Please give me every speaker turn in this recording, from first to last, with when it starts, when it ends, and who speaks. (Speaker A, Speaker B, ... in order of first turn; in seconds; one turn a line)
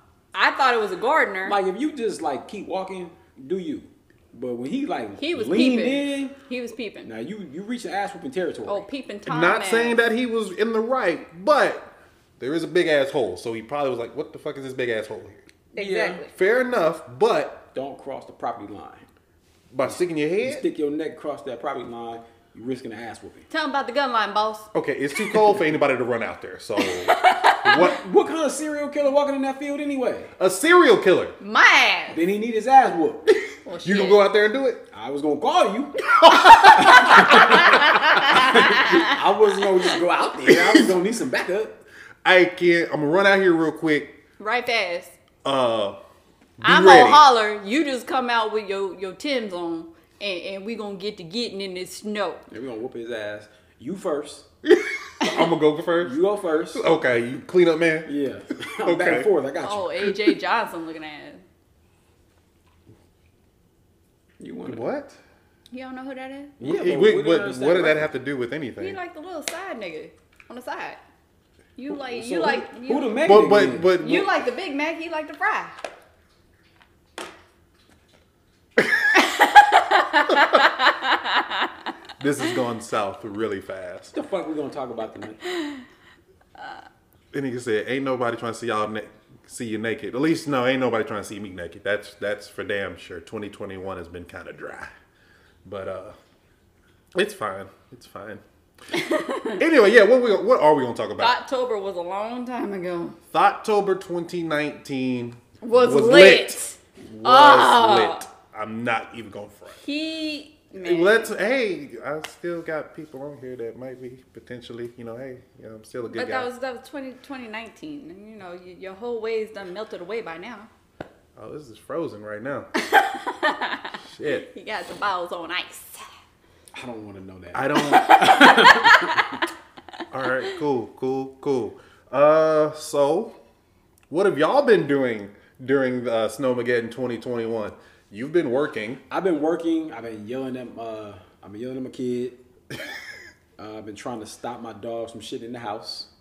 Speaker A: 0.3-1.6
Speaker B: 1.4-6.3
Speaker A: 5.2-7.1
Speaker B: 7.0-8.8
Speaker A: 8.7-10.0
Speaker C: 9.2-15.4
Speaker B: 15.7-16.2
Speaker A: 15.7-16.3
Speaker C: 16.3-17.6
Speaker B: 17.7-19.1
Speaker C: 19.7-20.6
Speaker B: 19.9-23.4
Speaker A: 23.5-24.7
Speaker C: 24.7-27.9
Speaker A: 26.8-27.9
Speaker B: 27.6-30.3
Speaker C: 30.4-31.3
Speaker A: 31.4-32.2
Speaker B: 32.1-33.3
Speaker A: 33.6-34.2
Speaker C: 33.8-34.8
Speaker B: 34.9-36.0
Speaker C: 36.2-38.6
Speaker A: 36.4-39.2
Speaker B: 36.7-41.8
Speaker C: 40.5-40.9
Speaker C: 42.2-44.1
Speaker A: 44.4-45.1
Speaker C: 45.4-46.0
Speaker C: 46.6-47.2
Speaker A: 46.6-52.4
Speaker B: 52.5-54.5
Speaker C: 54.6-56.2
Speaker B: 56.0-56.9
Speaker C: 56.7-58.1
Speaker B: 58.0-60.1
Speaker C: 58.8-59.3
Speaker A: 59.6-61.4
Speaker B: 64.4-64.8
Speaker C: 64.6-65.2
Speaker A: 65.7-66.6
Speaker B: 66.6-68.1
Speaker C: 66.6-69.0
Speaker A: 68.8-71.0
Speaker A: 71.8-73.3
Speaker B: 71.9-73.9
Speaker C: 73.2-74.3
Speaker A: 74.0-75.8
Speaker A: 79.1-81.7
Speaker C: 82.2-84.1
Speaker B: 84.1-85.4
Speaker C: 87.3-94.9
Speaker C: 95.6-96.1
Speaker C: 97.1-98.4
Speaker A: 98.9-99.6
Speaker C: 99.6-101.3
Speaker A: 101.2-103.2
Speaker C: 103.3-109.8
Speaker A: 105.6-108.2
Speaker A: 109.8-111.3
Speaker C: 110.8-116.5
Speaker A: 116.1-120.7
Speaker C: 121.3-122.7
Speaker A: 122.8-126.1
Speaker C: 124.0-124.5
Speaker B: 126.7-129.2
Speaker C: 127.5-128.2
Speaker A: 127.8-129.4
Speaker C: 130.1-133.3
Speaker C: 134.1-139.0
Speaker B: 139.1-142.4
Speaker B: 143.6-146.1